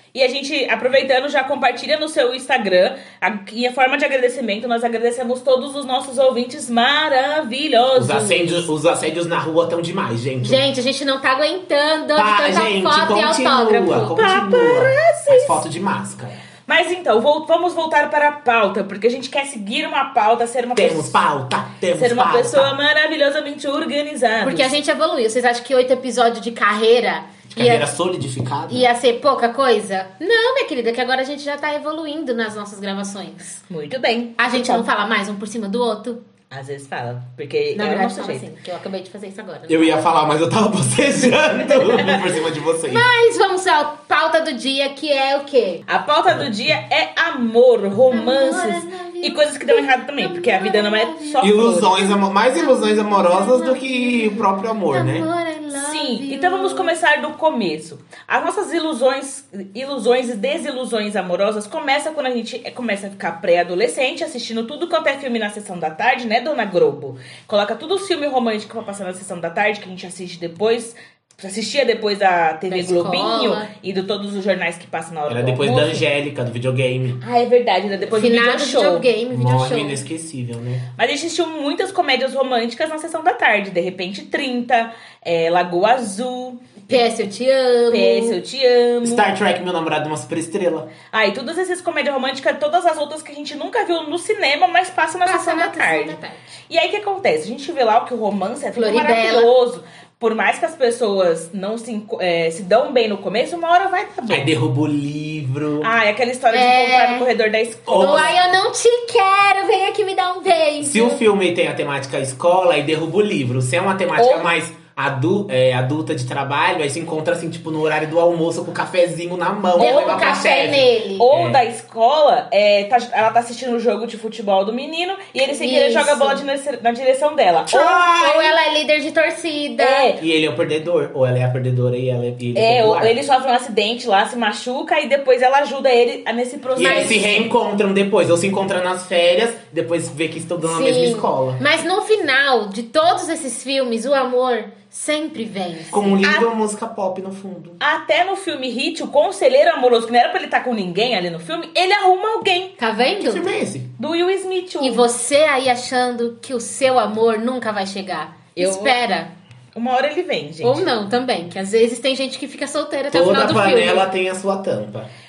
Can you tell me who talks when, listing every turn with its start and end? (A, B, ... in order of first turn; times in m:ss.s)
0:00.1-0:08.6 A
0:07.9-0:10.6 B
0:10.4-0:14.1 C
0:12.1-0:16.4 B
0:14.1-0:15.6 A
0:16.7-0:21.2 A
0:20.8-0:22.7 B
0:21.9-0:24.7 A
0:24.4-0:27.9 C
0:27.5-0:28.9 B
0:28.7-0:33.6 C
0:33.7-0:34.8 A
0:34.4-0:36.2 C
0:36.5-0:38.4 A
0:37.7-0:40.0 C
0:39.7-0:43.0 B
0:41.8-0:42.1 A
0:42.9-0:45.8 C
0:45.9-0:52.0 A
0:48.1-0:56.9 C
0:51.4-0:55.3 B
0:55.7-1:16.0 A
1:12.7-1:13.7 C
1:15.3-1:17.2 B
1:17.2-1:19.0 A
1:18.1-1:20.0 C
1:19.3-1:20.8 B
1:21.0-1:26.7 A
1:26.9-1:28.4 C
1:27.9-1:29.3 A
1:29.0-1:30.9 B
1:31.1-1:36.2 A
1:35.2-1:36.4 C
1:36.7-1:44.5 A
1:38.7-1:39.5 C
1:44.3-1:45.9 B
1:45.8-1:48.4 A
1:46.5-1:47.3 C
1:47.9-1:51.2 C
1:50.8-2:01.6 B
1:54.2-1:54.5 A
1:59.8-2:00.4 A
1:59.8-2:01.2 C
2:01.2-2:08.4 A
2:05.5-2:06.4 C
2:07.7-2:10.1 C
2:07.7-2:08.4 B
2:09.8-2:10.2 A
2:10.2-2:13.1 B
2:12.5-2:17.4 A
2:16.8-2:21.6 B
2:16.8-2:17.2 C
2:20.6-2:26.2 C
2:25.9-2:27.8 B
2:27.8-2:32.7 A
2:32.8-2:33.5 C
2:33.2-2:33.9 B
2:34.0-2:35.0 A
2:34.8-2:39.3 C
2:38.6-2:39.0 A
2:39.7-2:40.8 A
2:40.6-2:44.1 C
2:43.1-2:45.1 B